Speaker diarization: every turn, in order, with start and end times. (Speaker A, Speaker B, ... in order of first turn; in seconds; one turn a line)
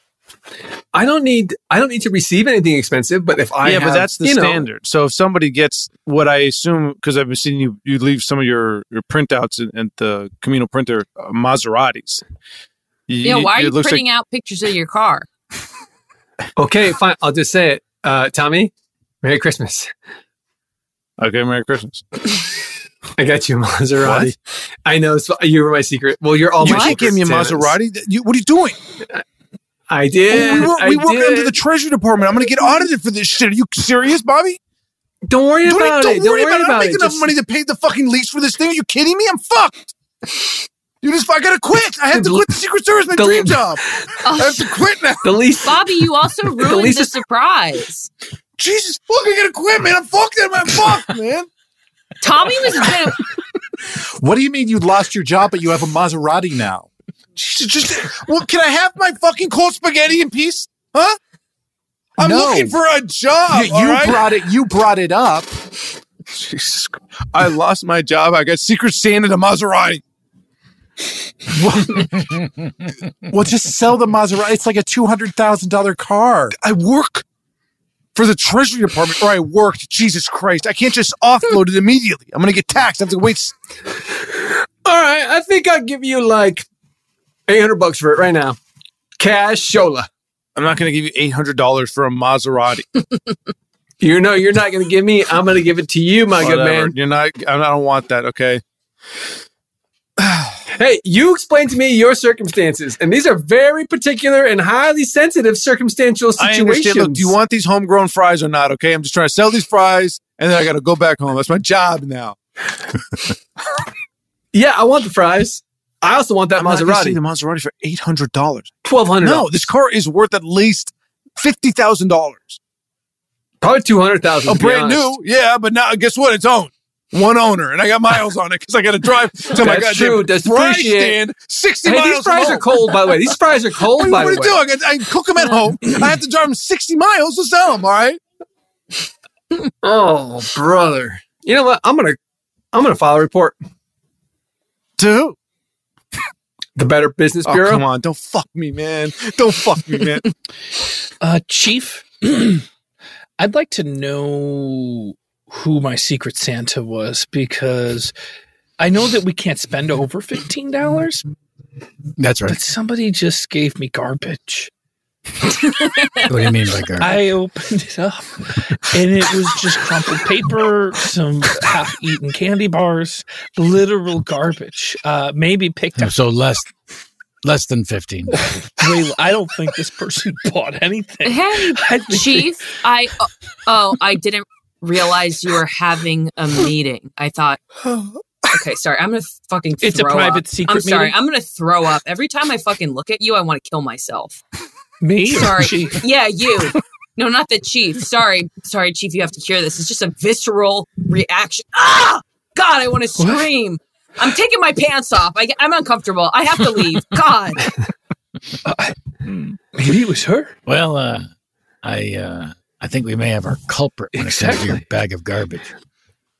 Speaker A: 0.9-4.7
Speaker B: 3.6-12.2
Speaker B: 13.1-14.0
Speaker C: 13.2-15.3
Speaker A: 16.6-19.9
Speaker B: 21.2-22.1
Speaker A: 23.2-27.8
Speaker B: 24.0-24.3
Speaker B: 26.6-28.8
Speaker C: 26.6-27.0
Speaker A: 29.9-31.6
Speaker B: 30.3-34.6
Speaker A: 35.2-37.4
Speaker B: 35.6-39.9
Speaker B: 41.0-43.8
Speaker A: 42.1-42.6
Speaker A: 43.1-43.7
Speaker C: 44.2-44.7
Speaker B: 44.4-45.3
Speaker A: 45.2-45.8
Speaker C: 45.6-48.1
Speaker A: 46.6-47.1
Speaker B: 48.6-51.5
Speaker C: 52.2-53.2
Speaker D: 54.0-56.9
Speaker B: 57.4-61.2
Speaker B: 62.2-64.3
Speaker D: 62.2-62.8
Speaker D: 63.5-65.5
Speaker B: 66.3-70.0
Speaker D: 71.6-72.1
Speaker D: 73.3-76.5
Speaker B: 76.5-77.2
Speaker B: 78.1-83.5
Speaker A: 84.8-86.6
Speaker A: 87.5-88.6
Speaker A: 89.2-90.1
Speaker B: 90.6-92.9
Speaker A: 94.0-96.9
Speaker B: 96.4-98.6
Speaker B: 100.2-100.6
Speaker A: 100.7-107.3
Speaker B: 106.4-112.4
Speaker A: 114.5-117.2
Speaker B: 116.6-118.7
Speaker A: 118.8-119.7
Speaker B: 119.2-122.6
Speaker A: 123.6-125.1
Speaker B: 124.5-133.3
Speaker A: 129.5-131.2
Speaker A: 131.8-134.6
Speaker B: 133.9-138.2
Speaker A: 139.8-142.2
Speaker A: 142.7-143.6
Speaker B: 145.0-145.4
Speaker A: 146.8-147.8
Speaker B: 147.4-150.2
Speaker E: 151.2-152.6
Speaker E: 153.4-158.1
Speaker E: 158.8-161.2
Speaker F: 162.2-162.6
Speaker E: 162.5-164.7
Speaker F: 166.3-167.2
Speaker E: 167.0-176.1
Speaker F: 175.9-176.7
Speaker F: 177.4-178.5
Speaker E: 178.8-182.6
Speaker C: 181.2-187.6
Speaker C: 188.5-194.4
Speaker E: 189.8-191.2
Speaker E: 195.0-196.0
Speaker C: 195.3-207.6
Speaker E: 203.2-203.4
Speaker E: 208.7-208.9
Speaker E: 209.7-210.6
Speaker F: 210.7-211.3
Speaker F: 211.8-215.7
Speaker E: 214.1-214.8